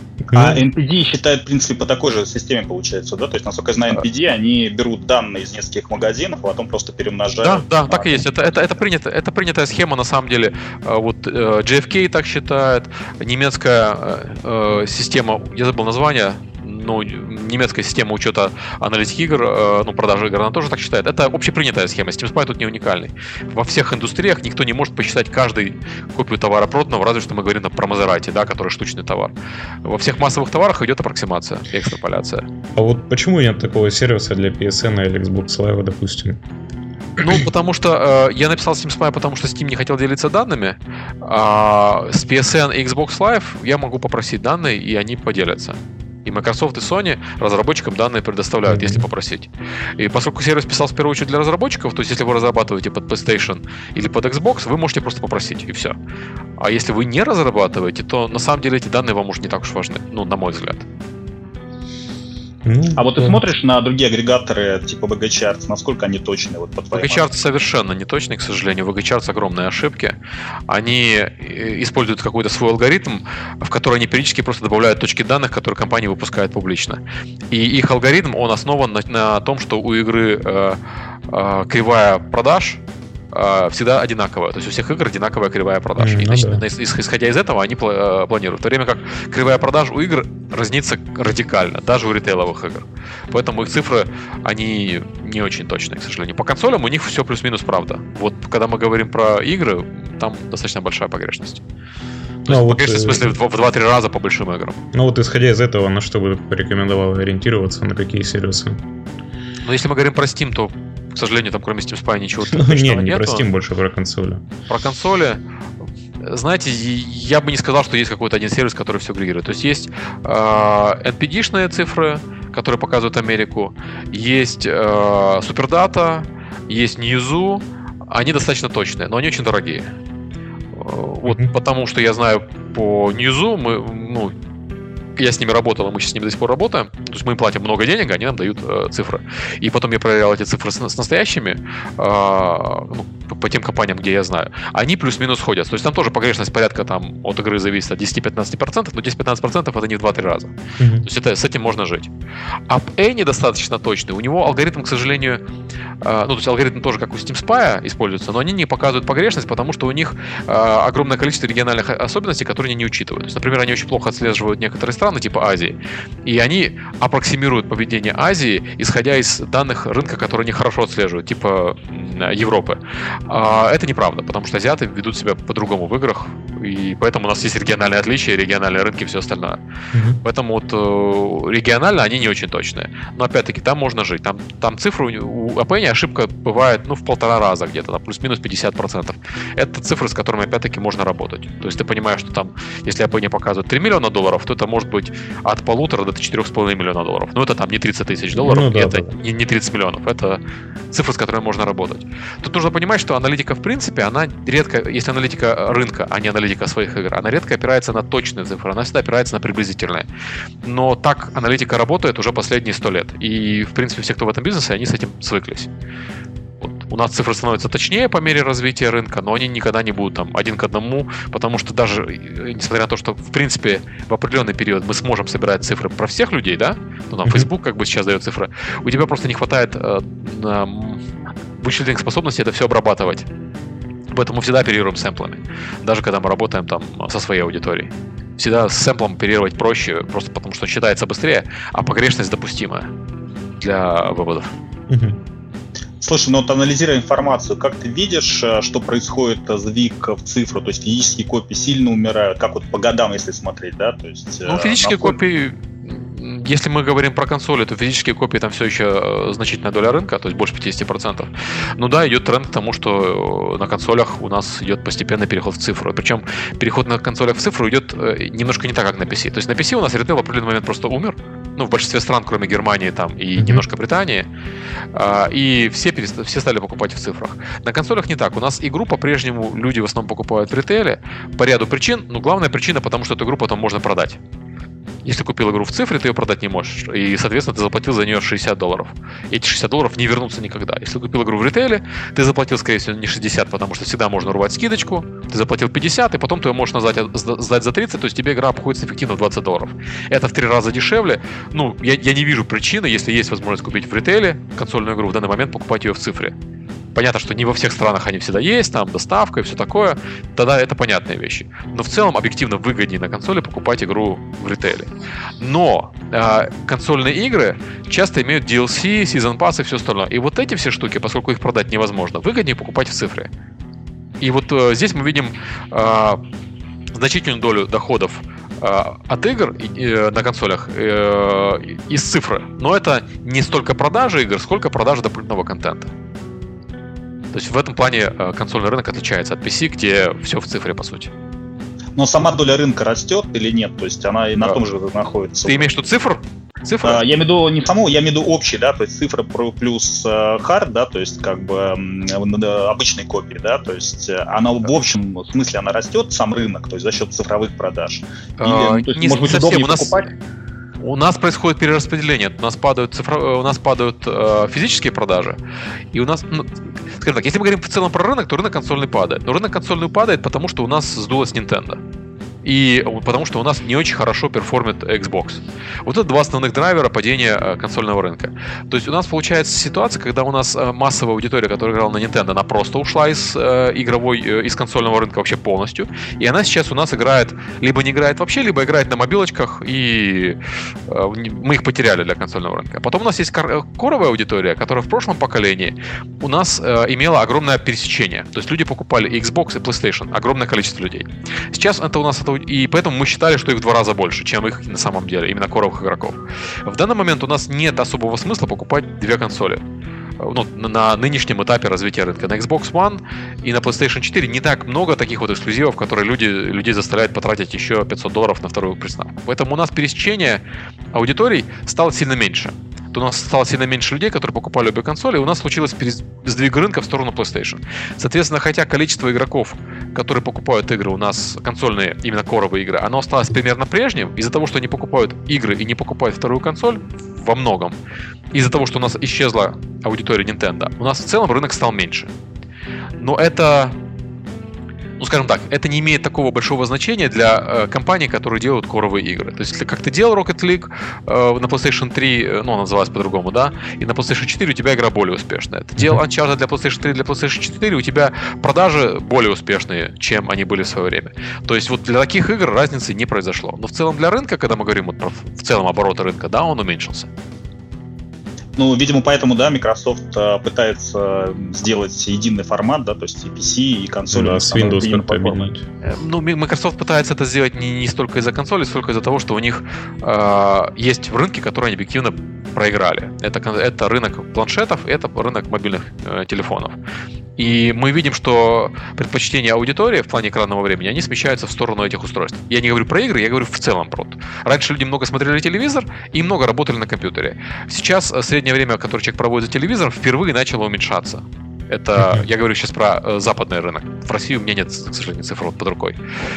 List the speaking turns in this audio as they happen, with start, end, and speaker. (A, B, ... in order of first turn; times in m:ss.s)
0:00.2-0:00.6 A
0:00.3-0:08.2 B
0:07.4-0:32.5 C
0:32.8-0:36.4 A
0:37.2-0:56.0 C
0:48.7-0:49.1 A
0:56.6-1:00.8 C
1:02.6-1:03.4 A
1:03.0-1:07.3 B
1:06.9-1:10.2 C
1:10.7-1:41.6 C
1:26.0-1:26.6 A
1:42.5-1:43.3 A
1:42.5-1:44.8 C
1:44.9-1:48.8 A
1:49.6-1:53.4 C
1:52.5-1:54.4 A
1:54.7-1:55.4 C
1:56.2-2:09.9 C
2:10.7-2:14.3 C
2:15.2-2:32.1 C
2:30.8-2:31.1 A
2:32.7-2:35.4 C
2:36.0-2:59.6 C
2:59.9-3:00.2 A
3:00.2-3:30.1 C
3:18.3-3:19.2 A
3:30.6-3:35.7 C
3:36.6-3:51.0 C
3:51.6-3:53.3 C
3:54.1-4:02.9 C
4:03.6-4:04.5 C
4:04.9-4:05.2 A
4:06.0-4:15.2 B
4:14.4-4:34.3 C
4:33.4-4:33.6 A
4:34.9-4:44.2 C
4:45.0-5:06.3 C
5:06.9-5:23.3 C
5:24.2-5:26.2 C
5:26.9-5:35.9 C
5:37.3-5:41.1 C
5:42.0-5:45.7 B
5:45.4-5:47.0 C
5:46.8-6:00.1 B
5:58.4-6:00.1 C
6:00.8-6:05.4 C
6:05.9-6:11.8 C
6:12.4-6:49.6 C
6:50.2-7:17.8 C
7:18.3-7:22.1 C
7:23.0-7:23.8 C
7:25.0-7:47.1 C
7:48.6-7:55.5 B
7:54.1-7:55.6 A
7:55.8-8:06.8 C
8:07.4-8:26.0 C
8:22.0-8:22.2 A